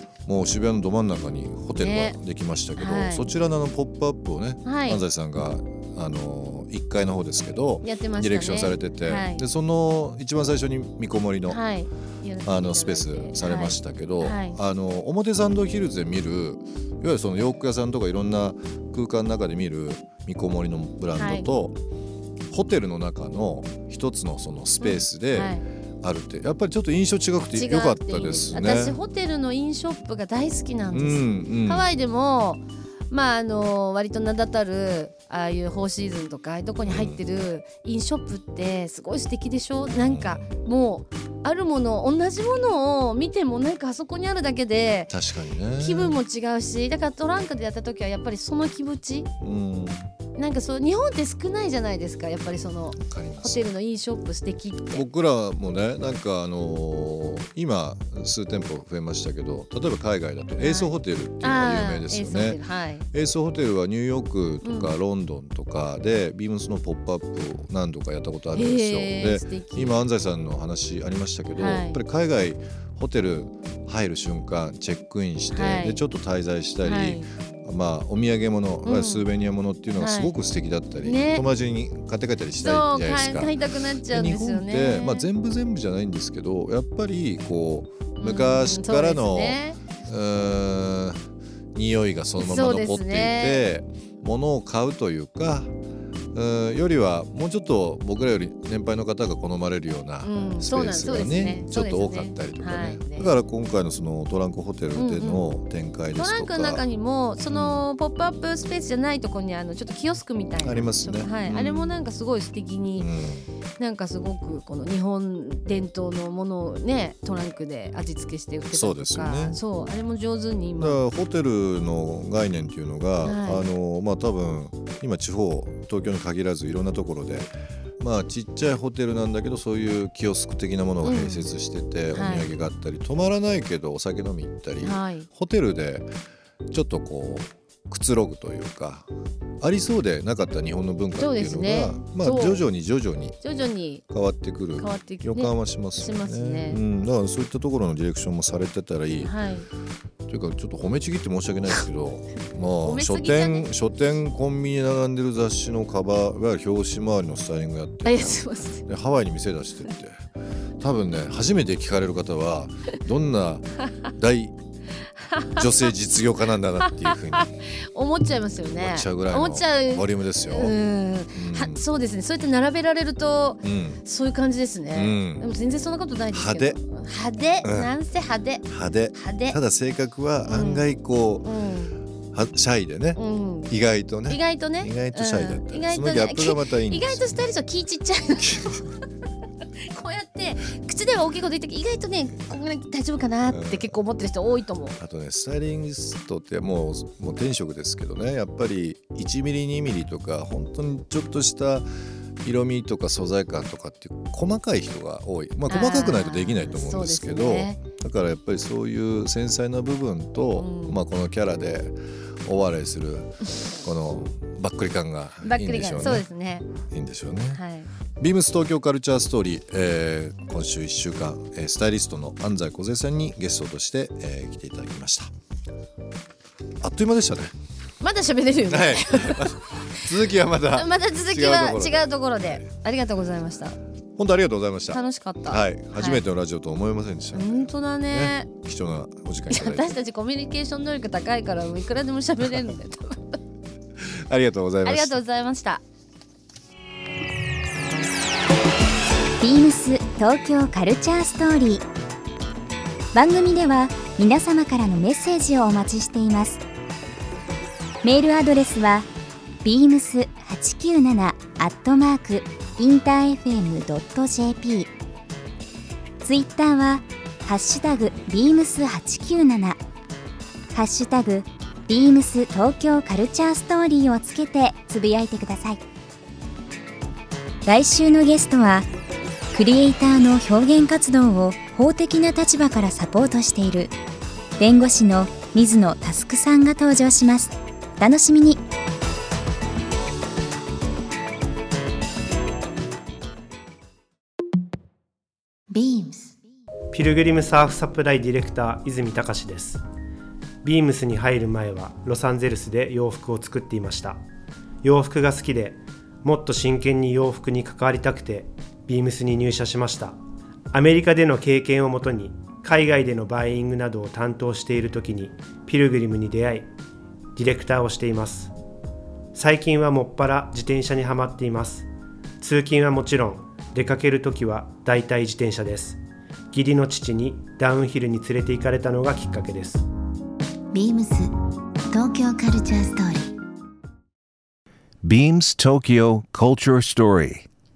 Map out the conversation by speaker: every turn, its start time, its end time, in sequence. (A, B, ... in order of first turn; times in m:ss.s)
0:00.3-0:11.6 A
0:01.8-0:02.2 B
0:02.8-0:03.3 B
0:04.6-0:05.0 B
0:07.8-0:09.5 B
0:11.5-0:14.6 B
0:12.4-0:21.8 A
0:21.2-0:21.5 B
0:22.5-0:29.0 A
0:24.8-0:25.6 B
0:27.5-0:45.1 B
0:30.9-0:31.9 A
0:36.8-0:37.2 A
0:39.9-0:40.5 A
0:45.1-0:46.2 A
0:45.8-0:49.3 B
0:49.4-0:50.1 A
0:50.4-0:55.1 B
0:53.0-0:53.6 A
0:54.9-1:02.6 A
1:00.6-1:03.1 B
1:03.1-1:23.6 A
1:04.6-1:04.9 B
1:08.5-1:10.0 B
1:11.5-1:12.0 B
1:15.5-1:16.0 B
1:16.8-1:17.3 B
1:18.8-1:19.3 B
1:20.0-1:20.4 B
1:21.0-1:21.4 B
1:22.6-1:25.3 B
1:24.1-1:35.7 A
1:28.2-1:29.8 B
1:32.4-1:33.7 B
1:36.3-1:46.9 A
1:40.2-1:43.3 B
1:45.0-1:45.5 B
1:46.1-1:53.1 B
1:47.4-1:47.9 A
1:50.6-1:52.0 A
1:53.0-1:53.5 A
1:53.8-2:01.0 B
1:58.7-1:59.6 A
2:00.8-2:16.1 A
2:03.2-2:03.6 B
2:11.0-2:11.5 B
2:12.1-2:12.5 B
2:14.8-2:15.3 B
2:16.7-2:19.1 A
2:19.6-2:23.4 A
2:21.2-2:22.7 B
2:23.4-2:24.0 B
2:24.1-2:29.3 A
2:24.8-2:26.8 B
2:29.2-2:29.7 B
2:30.3-2:40.3 A
2:32.8-2:33.7 B
2:38.0-2:38.8 B
2:40.8-2:44.5 A
2:45.2-2:45.7 B
2:45.5-2:47.5 A
2:46.8-2:59.6 B
2:48.7-2:50.8 A
2:51.3-2:51.8 A
2:53.6-2:54.0 A
2:54.9-2:55.4 A
2:56.3-2:56.8 A
2:57.6-2:57.9 A
2:58.6-3:01.5 A
3:00.4-3:00.9 B
3:01.4-3:02.0 B
3:02.3-3:07.5 A
3:03.2-3:08.9 B
3:09.9-3:15.0 B
3:13.5-3:14.0 A
3:15.0-3:21.9 A
3:22.4-3:36.3 A
3:25.7-3:27.8 B
3:30.6-3:31.0 B
3:35.4-3:36.7 B
3:36.9-3:37.6 A
3:37.5-3:37.9 B
3:38.2-3:45.3 A
3:46.8-3:47.5 A
3:48.0-3:50.0 B
3:48.7-3:52.6 A
3:50.7-3:53.8 B
3:54.2-4:00.0 A
3:54.9-3:56.2 B
3:57.3-3:58.5 B
3:59.5-4:03.3 B
4:04.0-4:05.2 A
4:04.8-4:05.8 B
4:09.4-4:11.9 C
4:13.1-4:16.6 C
4:18.0-4:19.1 C
4:19.6-4:24.9 C
4:26.2-4:29.8 C
4:30.7-4:35.8 C
4:37.7-4:38.9 C
4:39.5-4:44.0 C
4:44.6-4:48.6 C
4:55.7-4:56.4 D
4:56.9-4:59.8 E
5:00.6-5:04.2 E
5:04.8-5:10.2 E
5:10.7-5:16.7 E
5:17.4-5:18.5 E
5:19.4-5:21.9 E
5:22.4-5:26.0 E
5:26.5-5:29.8 E
5:30.7-5:31.3 D
5:31.9-5:33.3 D
5:35.0-5:37.4 F